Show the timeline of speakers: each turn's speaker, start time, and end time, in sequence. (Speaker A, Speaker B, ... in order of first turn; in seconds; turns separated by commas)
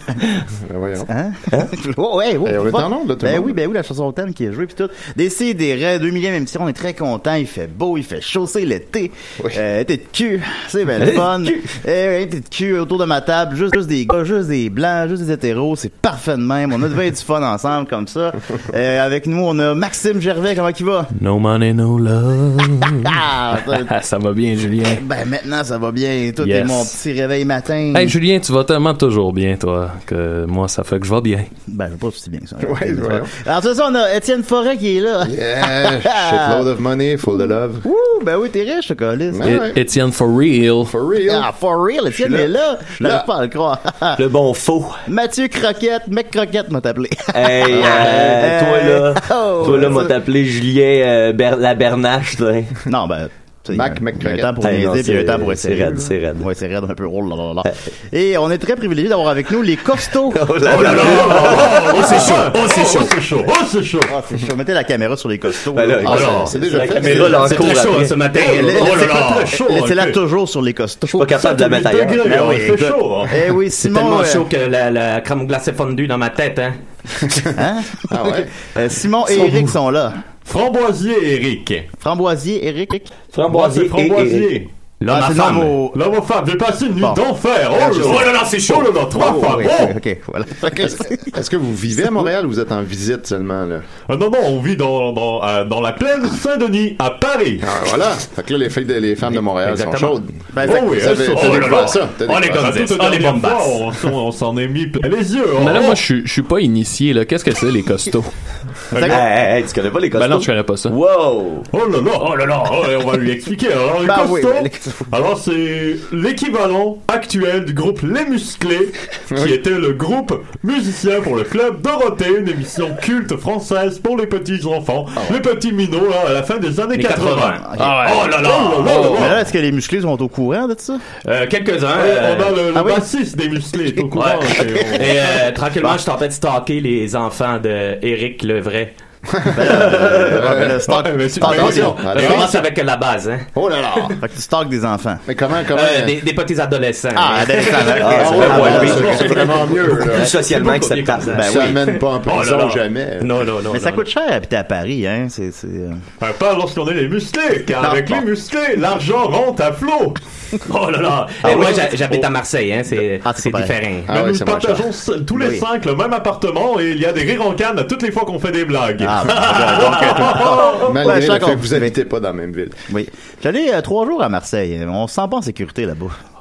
Speaker A: 0.7-1.1, Speaker B: 1.1-21.1, Speaker A: 2.5-3.5, Speaker C: 11.0-11.7, Speaker D: 21.2-25.0, Speaker B: 23.0-23.9, Speaker B: 24.9-28.2, Speaker D: 26.4-26.9, Speaker D: 27.9-31.5, Speaker B: 31.7-36.7, Speaker A: 32.6-33.3, Speaker A: 35.2-37.9, Speaker B: 37.4-39.6, Speaker A: 39.3-39.8, Speaker D: 39.5-41.0, Speaker A: 40.8-41.5, Speaker B: 41.3-44.2, Speaker A: 42.1-43.3, Speaker C: 44.2-45.0, Speaker B: 45.1-50.1, Speaker C: 47.3-52.7, Speaker A: 47.7-48.2, Speaker A: 49.6-50.1, Speaker B: 52.9-60.6, Speaker A: 53.7-54.6, Speaker C: 54.6-56.5, Speaker C: 60.3-61.8, Speaker E: 60.7-64.1, Speaker F: 60.7-63.2, Speaker B: 62.0-62.5, Speaker B: 64.1-66.8, Speaker C: 65.7-68.2, Speaker A: 66.0-67.7, Speaker F: 66.1-66.5, Speaker F: 67.2-69.6, Speaker B: 68.3-71.5, Speaker E: 68.4-70.2, Speaker C: 71.2-72.5, Speaker E: 71.4-73.4, Speaker B: 72.2-74.5, Speaker F: 73.8-76.8, Speaker A: 77.2-78.5, Speaker B: 77.6-80.2, Speaker E: 80.5-81.9, Speaker B: 82.0-83.1, Speaker C: 83.3-84.6, Speaker E: 83.5-84.7, Speaker F: 85.0-85.8, Speaker B: 85.1-86.0, Speaker E: 85.9-90.0, Speaker B: 87.7-88.3, Speaker F: 88.0-88.9, Speaker B: 89.1-91.3, Speaker A: 90.8-93.9, Speaker B: 91.9-92.3, Speaker E: 94.1-97.7, Speaker A: 97.6-102.7, Speaker F: 99.6-100.2, Speaker B: 100.5-101.0, Speaker E: 100.6-102.0, Speaker F: 101.0-103.8, Speaker E: 102.5-106.0, Speaker D: 105.6-108.3, Speaker E: 108.9-109.2, Speaker B: 108.9-109.2, Speaker C: 109.0-111.7, Speaker D: 110.1-111.0, Speaker E: 111.7-127.7, Speaker F: 112.2-113.0, Speaker B: 114.0-115.1, Speaker A: 119.3-119.6, Speaker F: 126.9-129.2, Speaker B: 127.7-128.0, Speaker D: 127.8-129.3, Speaker E: 128.2-129.4, Speaker B: 129.2-131.0, Speaker F: 131.2-132.7, Speaker E: 131.9-135.3, Speaker B: 132.7-133.1, Speaker F: 134.2-138.9, Speaker A: 139.3-140.9, Speaker B: 139.5-142.0, Speaker E: 140.9-142.5, Speaker A: 141.4-142.6, Speaker F: 141.5-144.1, Speaker A: 143.6-144.2, Speaker B: 144.2-145.2, Speaker A: 145.3-146.2, Speaker F: 145.7-154.0, Speaker B: 147.1-149.3, Speaker C: 148.0-151.5, Speaker A: 148.1-150.4, Speaker B: 151.3-151.8, Speaker A: 151.4-153.3, Speaker B: 153.7-156.0, Speaker E: 156.2-160.2, Speaker B: 157.8-158.2, Speaker F: 160.7-164.2, Speaker E: 161.4-162.3, Speaker B: 163.2-163.8, Speaker A: 164.1-164.8, Speaker E: 164.1-171.0, Speaker B: 165.3-165.7, Speaker B: 169.0-172.0, Speaker F: 169.5-170.2, Speaker A: 170.7-172.8, Speaker B: 172.9-176.2